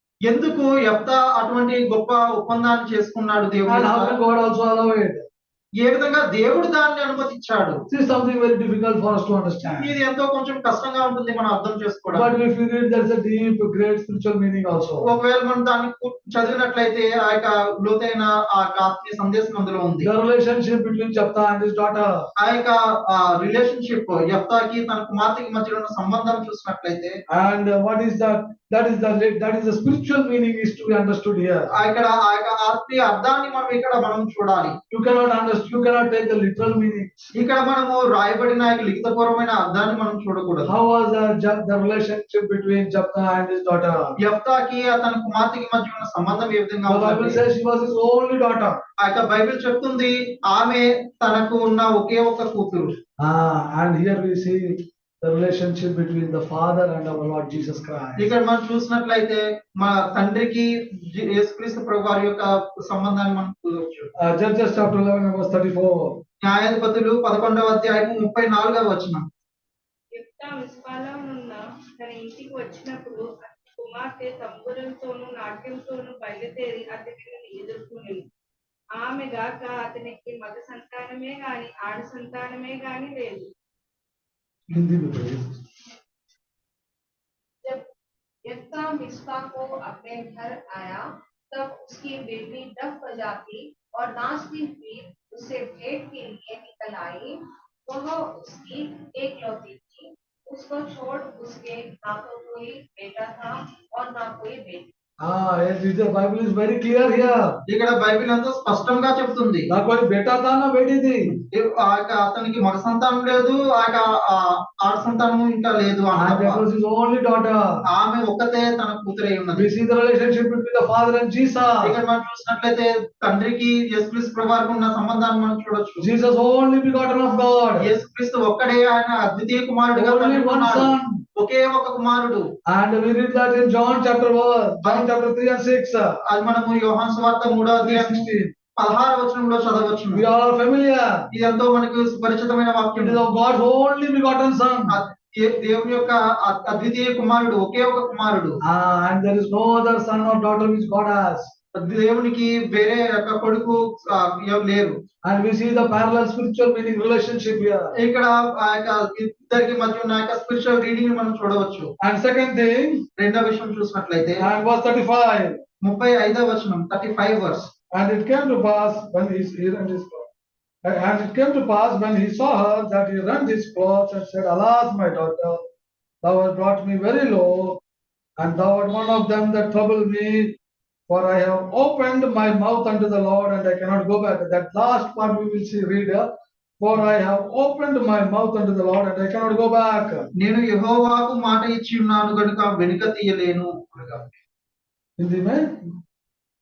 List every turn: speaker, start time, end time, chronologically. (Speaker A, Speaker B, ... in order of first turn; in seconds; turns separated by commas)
Speaker A: 0.2-4.2, Speaker B: 3.7-5.2, Speaker A: 5.8-7.8, Speaker B: 7.9-9.9, Speaker A: 9.8-12.3, Speaker B: 12.1-15.1, Speaker A: 15.0-20.1, Speaker B: 20.0-22.3, Speaker A: 22.4-27.2, Speaker B: 27.3-31.7, Speaker A: 31.7-34.8, Speaker B: 34.9-37.1, Speaker A: 37.4-40.7, Speaker B: 40.6-44.1, Speaker A: 44.2-47.4, Speaker B: 46.9-48.8, Speaker A: 49.0-52.9, Speaker B: 53.2-58.3, Speaker A: 58.2-64.1, Speaker B: 64.2-66.2, Speaker A: 66.4-69.2, Speaker C: 70.1-78.2, Speaker C: 79.0-83.5, Speaker B: 84.7-85.6, Speaker D: 88.5-104.8, Speaker B: 105.2-107.6, Speaker A: 107.7-109.7, Speaker B: 109.7-111.3, Speaker A: 111.5-116.6, Speaker B: 116.1-117.6, Speaker A: 117.9-119.7, Speaker B: 119.5-121.9, Speaker A: 121.8-126.1, Speaker B: 126.0-127.9, Speaker A: 127.8-132.4, Speaker B: 129.9-131.2, Speaker B: 132.7-136.2, Speaker A: 134.8-135.1, Speaker A: 136.2-138.3, Speaker B: 137.8-138.5, Speaker A: 138.8-140.2, Speaker B: 140.1-141.2, Speaker A: 141.3-143.2, Speaker B: 143.0-144.9, Speaker A: 144.9-148.6, Speaker B: 148.6-151.5, Speaker A: 151.8-154.9, Speaker B: 155.2-157.9, Speaker A: 157.9-161.9, Speaker B: 162.0-163.0, Speaker A: 163.2-164.4, Speaker B: 164.4-165.6, Speaker A: 165.8-167.7, Speaker B: 167.9-170.3, Speaker B: 170.8-175.7, Speaker B: 176.2-177.8, Speaker B: 178.4-180.5, Speaker B: 181.1-186.3, Speaker B: 186.8-190.3, Speaker A: 190.4-194.3, Speaker B: 195.2-195.7